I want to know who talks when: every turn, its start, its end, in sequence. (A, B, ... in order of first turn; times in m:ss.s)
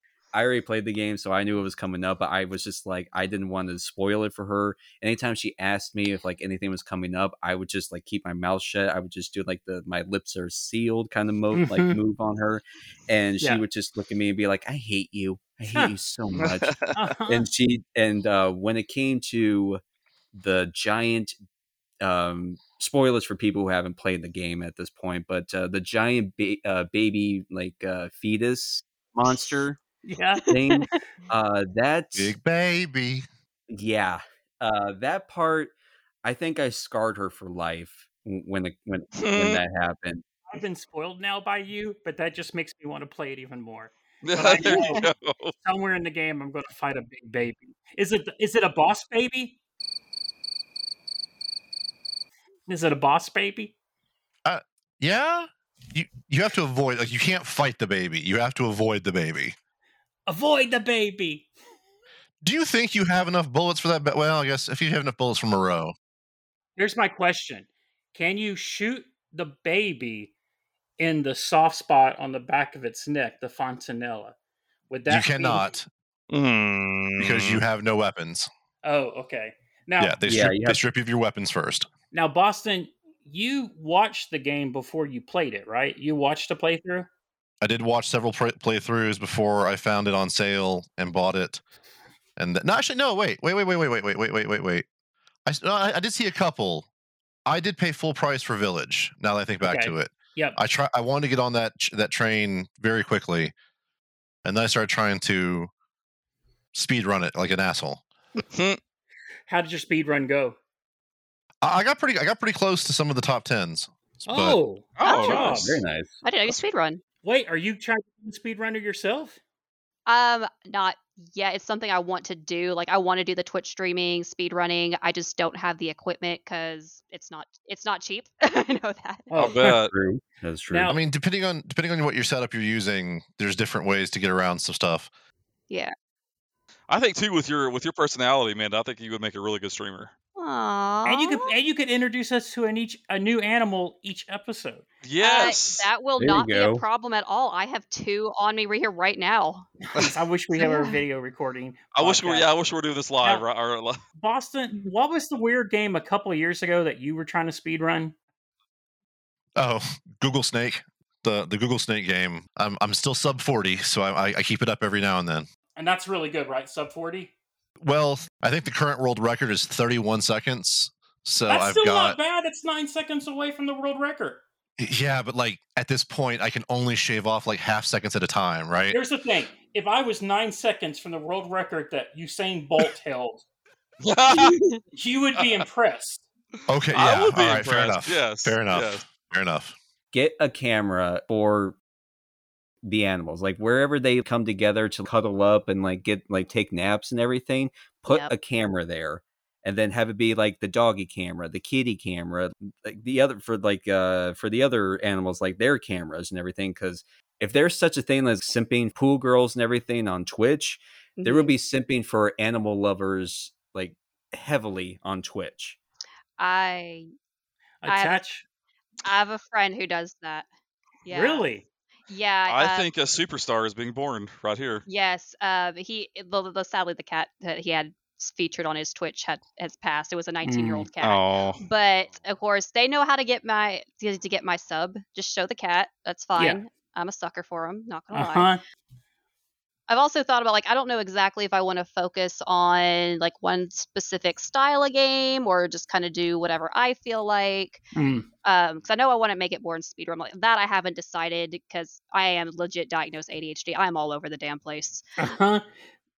0:00.3-0:19.8 A
0:11.5-0:12.0 B
0:16.4-0:16.9 C
0:16.9-0:17.5 B
0:20.3-0:21.4 A
0:22.0-0:29.8 A
0:30.0-0:30.5 B
0:30.5-0:32.3 A
0:30.6-0:30.8 D
0:32.2-0:33.3 E
0:33.7-0:35.7 A
0:36.2-0:40.2 A
0:39.2-0:39.6 C
0:40.5-0:45.1 B
0:44.2-0:45.6 C
0:44.6-0:45.1 D
0:45.6-0:49.6 B
0:52.7-0:53.7 B
0:54.4-0:59.6 E
1:00.3-1:01.5 B
1:02.4-1:06.0 E
1:06.8-1:10.3 B
1:11.0-1:14.4 B
1:14.9-1:15.7 B
1:15.1-1:15.9 E
1:16.3-1:17.6 C
1:17.2-1:18.5 E
1:18.8-1:20.2 B
1:20.0-1:21.9 E
1:20.2-1:20.8 A
1:22.1-1:27.1 B
1:27.6-1:31.6 E
1:32.4-1:34.8 E
1:35.5-1:36.9 E
1:37.5-1:43.5 E
1:39.6-1:40.6 B
1:44.4-1:45.7 E
1:46.7-1:48.0 E
1:48.5-1:48.8 C
1:49.5-1:50.6 B
1:51.6-1:54.6 E
1:54.3-1:55.8 B
1:55.0-1:55.7 C
1:55.0-1:55.6 D
1:55.4-1:56.2 A
1:56.2-1:57.0 D
1:57.2-1:59.4 B
2:00.1-2:09.6 D
2:09.3-2:09.7 B
2:09.4-2:09.9 C
2:09.6-2:10.9 A
2:10.7-2:11.0 B
2:10.9-2:15.1 E
2:16.9-2:20.1 C
2:20.4-2:21.5 D
2:21.1-2:24.9 B
2:25.0-2:25.9 C
2:25.2-2:29.7 D
2:26.2-2:26.8 A
2:29.9-2:32.5 B
2:30.6-2:31.0 D
2:32.0-2:34.0 C
2:34.2-2:38.1 B
2:39.6-2:45.5 E
2:45.8-2:47.3 B
2:47.8-2:52.2 E
2:51.5-2:54.4 B
2:54.8-2:59.0 E
2:58.9-3:03.4 B
3:04.0-3:04.6 C
3:04.3-3:04.8 D
3:04.9-3:06.2 B
3:05.4-3:05.6 C
3:06.7-3:09.8 E
3:06.9-3:09.0 C
3:10.1-3:11.8 A
3:12.8-3:35.8 A
3:31.2-3:31.5 D
3:36.4-3:37.1 D
3:37.8-3:38.4 B
3:37.9-3:38.2 D
3:39.0-3:40.5 D
3:41.0-3:41.5 D
3:41.1-3:41.6 B
3:42.1-3:42.9 D
3:42.5-3:44.8 C
3:44.9-3:58.5 D
3:50.4-3:50.9 B
3:51.0-3:51.6 C
3:58.1-3:58.6 B
3:59.9-4:07.8 D
4:07.9-4:08.3 B
4:08.4-4:15.0 D
4:15.2-4:15.7 B